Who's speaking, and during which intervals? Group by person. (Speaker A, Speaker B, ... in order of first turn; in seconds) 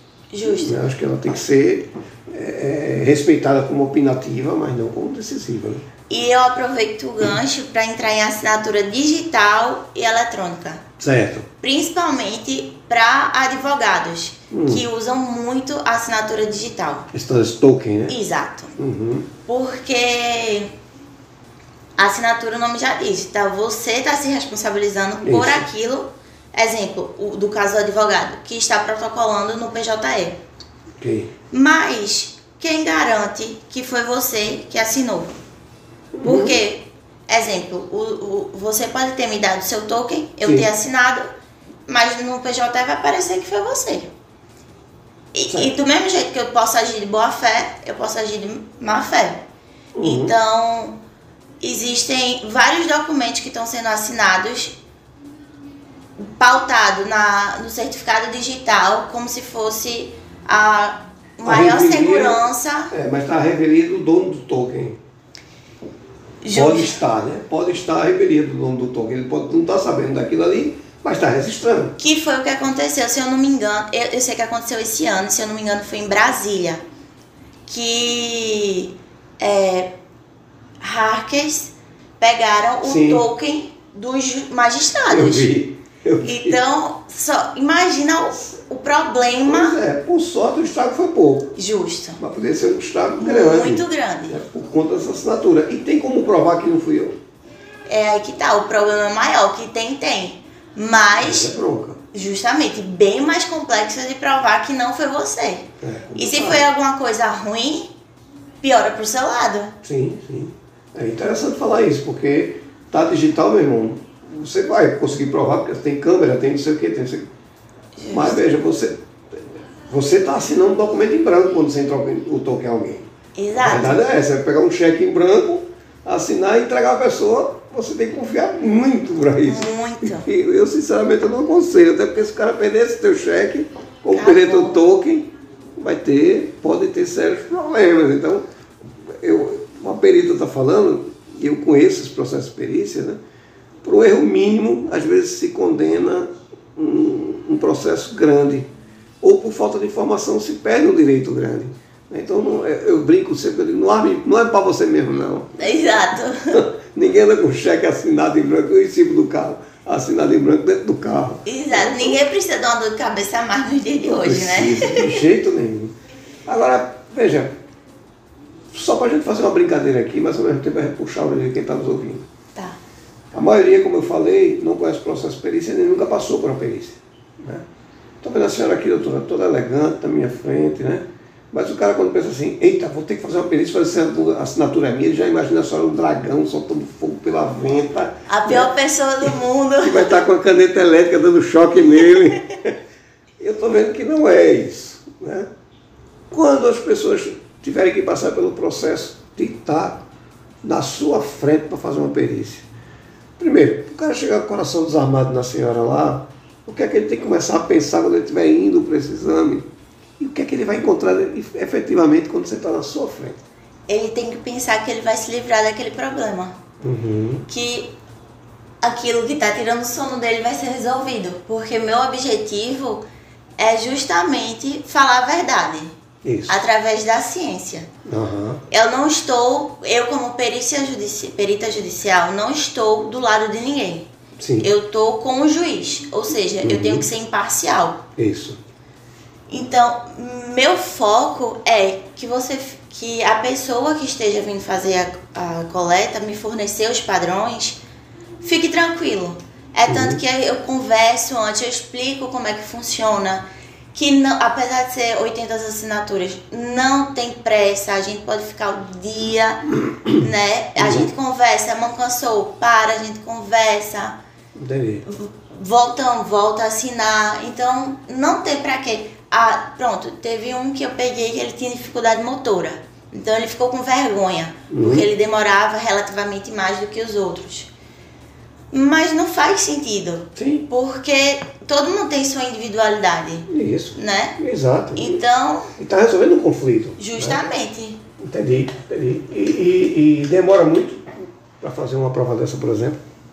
Speaker A: 0.3-0.8, 6.1-10.8, 11.6-17.1, 18.1-18.8, 19.5-20.7, 22.0-30.4, 31.5-35.3, 36.2-41.3, 41.9-44.1, 45.3-49.4, 50.0-51.0, 51.6-54.8, 56.2-62.9, 66.4-67.0, 72.0-76.8, 77.7-79.9, 80.8-85.5, 86.2-89.8, 91.6-92.2, 93.2-94.4, 97.9-101.5, 102.1-107.9, 108.6-109.7, 118.0-118.4, 123.3-124.0, 129.4-130.3, 134.1-134.8, 155.6-156.6, 161.5-165.2, 188.3-190.2, 213.9-216.6, 217.5-217.9, 218.8-223.0, 223.6-225.9, 226.5-227.9, 228.7-234.1, 234.6-238.1, 239.5-247.8, 248.4-264.2, 265.1-277.7, 278.7-284.4, 285.0-285.7, 287.0-288.0
Speaker B: 0.4-5.8, 11.0-11.5, 14.5-14.8, 17.1-18.2, 18.8-19.3, 25.2-25.7, 31.0-31.3, 36.1-36.6, 40.4-40.7, 50.0-50.4, 61.4-65.0, 66.5-72.0, 82.8-83.2, 85.1-86.6, 89.5-91.5, 92.2-97.2, 101.2-102.0, 105.8-106.7, 109.8-117.3, 118.1-123.1, 123.6-138.4, 139.1-143.2, 143.8-148.7, 149.2-155.6, 156.5-162.2, 164.0-165.9, 166.5-167.5, 168.7-172.3, 173.3-177.7, 178.2-188.7, 189.8-192.8, 193.4-195.5, 196.3-200.0, 200.6-202.7, 203.4-209.7, 210.2-213.4, 216.8-217.5, 226.2-226.6, 228.1-228.6, 234.4-234.7, 236.6-237.1, 238.2-238.6, 249.9-250.2, 260.8-261.1, 264.6-265.1, 274.7-275.1, 280.4-280.7, 283.5-285.2, 285.8-287.4, 288.2-293.0